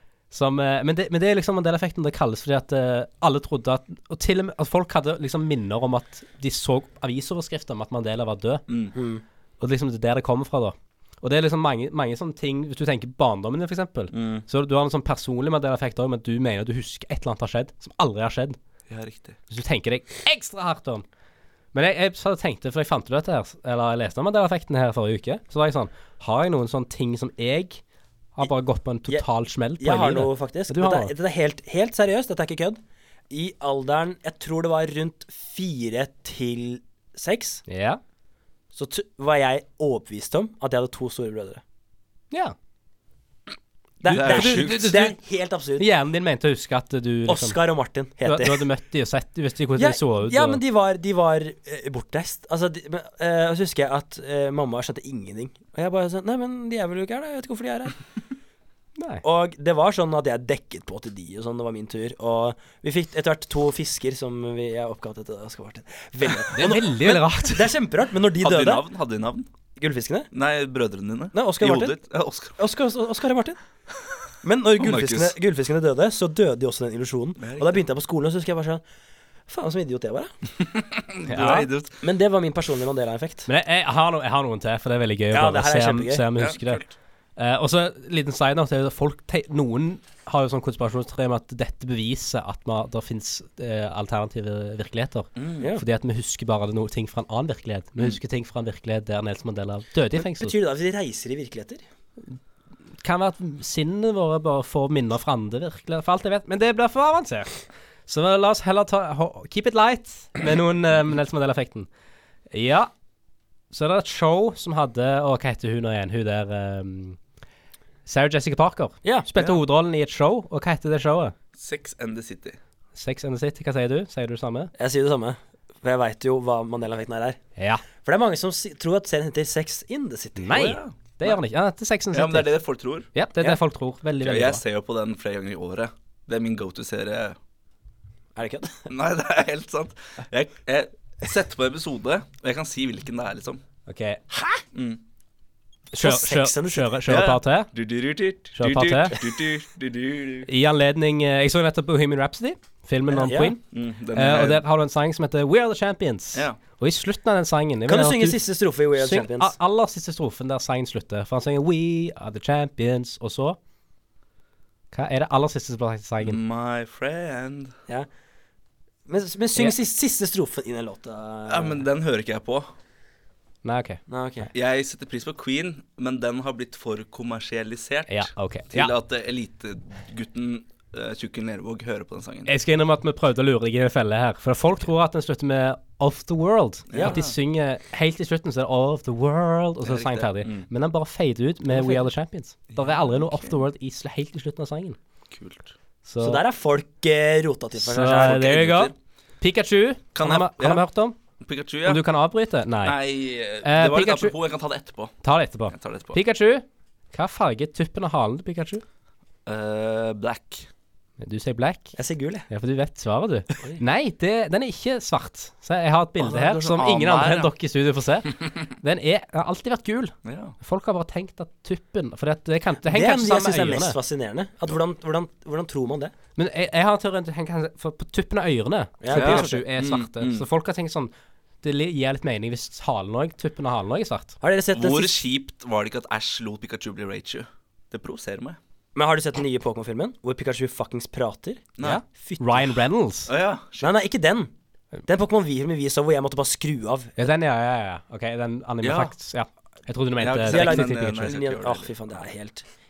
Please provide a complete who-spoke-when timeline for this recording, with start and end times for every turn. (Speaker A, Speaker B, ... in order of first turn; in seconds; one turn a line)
Speaker A: 0.3-8.6
Speaker B: 8.7-8.9
Speaker C: 8.9-9.2
Speaker A: 9.6-18.6
Speaker B: 14.1-14.4
Speaker B: 18.9-19.4
Speaker A: 19.5-21.0
Speaker A: 21.7-27.8
Speaker A: 28.4-31.1
Speaker C: 29.8-37.6
Speaker A: 37.7-38.0
Speaker C: 38.7-41.6
Speaker C: 44.0-45.9
Speaker A: 44.1-45.1
Speaker B: 44.1-45.0
Speaker A: 45.8-47.6
Speaker C: 47.3-48.6
Speaker A: 48.2-50.6
Speaker C: 49.8-58.0
Speaker A: 59.0-59.2
Speaker C: 59.2-68.8
Speaker A: 66.5-67.7
Speaker B: 68.4-69.5
Speaker C: 69.8-70.3
Speaker B: 70.3-72.6
Speaker C: 71.3-72.0
Speaker C: 72.6-73.6
Speaker C: 74.4-78.8
Speaker B: 74.8-75.4
Speaker B: 77.4-77.8
Speaker C: 79.5-80.3
Speaker B: 80.6-82.0
Speaker A: 81.3-81.6
Speaker C: 81.4-83.5
Speaker A: 83.5-86.8
Speaker C: 85.3-86.2
Speaker B: 86.3-86.9
Speaker A: 87.4-100.5
Speaker B: 95.4-95.7
Speaker C: 100.2-101.8
Speaker A: 103.0-111.9
Speaker A: 112.5-112.9
Speaker A: 113.7-117.2
Speaker A: 118.0-121.3
Speaker C: 119.0-119.6
Speaker B: 121.5-122.6
Speaker A: 122.9-124.7
Speaker C: 124.8-127.4
Speaker A: 127.6-127.8
Speaker C: 128.0-130.5
Speaker A: 130.4-132.6
Speaker B: 130.5-131.4
Speaker B: 132.1-133.1
Speaker A: 133.1-134.6
Speaker B: 134.2-137.4
Speaker C: 138.3-138.8
Speaker B: 138.9-143.6
Speaker A: 143.9-144.4
Speaker B: 144.7-145.0
Speaker A: 145.9-147.7
Speaker C: 146.0-146.9
Speaker B: 147.1-150.5
Speaker A: 148.6-149.2
Speaker A: 150.5-153.6
Speaker C: 153.1-153.5
Speaker B: 153.7-154.6
Speaker A: 154.1-158.4
Speaker B: 156.3-156.6
Speaker C: 157.9-159.5
Speaker A: 159.0-163.6
Speaker A: 164.9-166.4
Speaker B: 166.2-167.7
Speaker C: 169.1-171.8
Speaker B: 171.5-172.7
Speaker A: 173.6-174.0
Speaker C: 174.1-174.5
Speaker B: 174.5-182.5
Speaker A: 178.1-178.9
Speaker A: 182.5-195.0
Speaker B: 186.9-187.3
Speaker C: 186.9-187.2
Speaker B: 189.8-190.7
Speaker C: 191.7-192.0
Speaker B: 192.7-193.6
Speaker B: 195.3-195.7
Speaker A: 196.0-196.4
Speaker C: 196.2-198.8
Speaker A: 197.8-201.2
Speaker B: 198.2-198.9
Speaker B: 200.1-200.8
Speaker B: 201.4-202.0
Speaker A: 201.8-203.0
Speaker B: 202.8-205.1
Speaker A: 203.6-204.3
Speaker A: 205.2-208.8
Speaker B: 205.7-206.2
Speaker B: 209.4-210.7
Speaker A: 211.2-211.9
Speaker C: 211.9-212.5
Speaker A: 212.5-224.0
Speaker B: 216.2-217.5
Speaker B: 220.2-220.6
Speaker C: 222.8-226.1
Speaker A: 226.3-231.1
Speaker C: 229.0-229.6
Speaker B: 229.1-230.4
Speaker A: 231.6-234.3
Speaker C: 234.4-235.2
Speaker B: 234.7-238.6
Speaker C: 238.9-242.7
Speaker A: 241.8-243.3
Speaker B: 243.3-243.9
Speaker C: 243.8-244.5
Speaker C: 245.1-247.2
Speaker A: 247.2-251.3
Speaker B: 248.8-249.1
Speaker B: 250.2-251.9
Speaker C: 250.4-252.6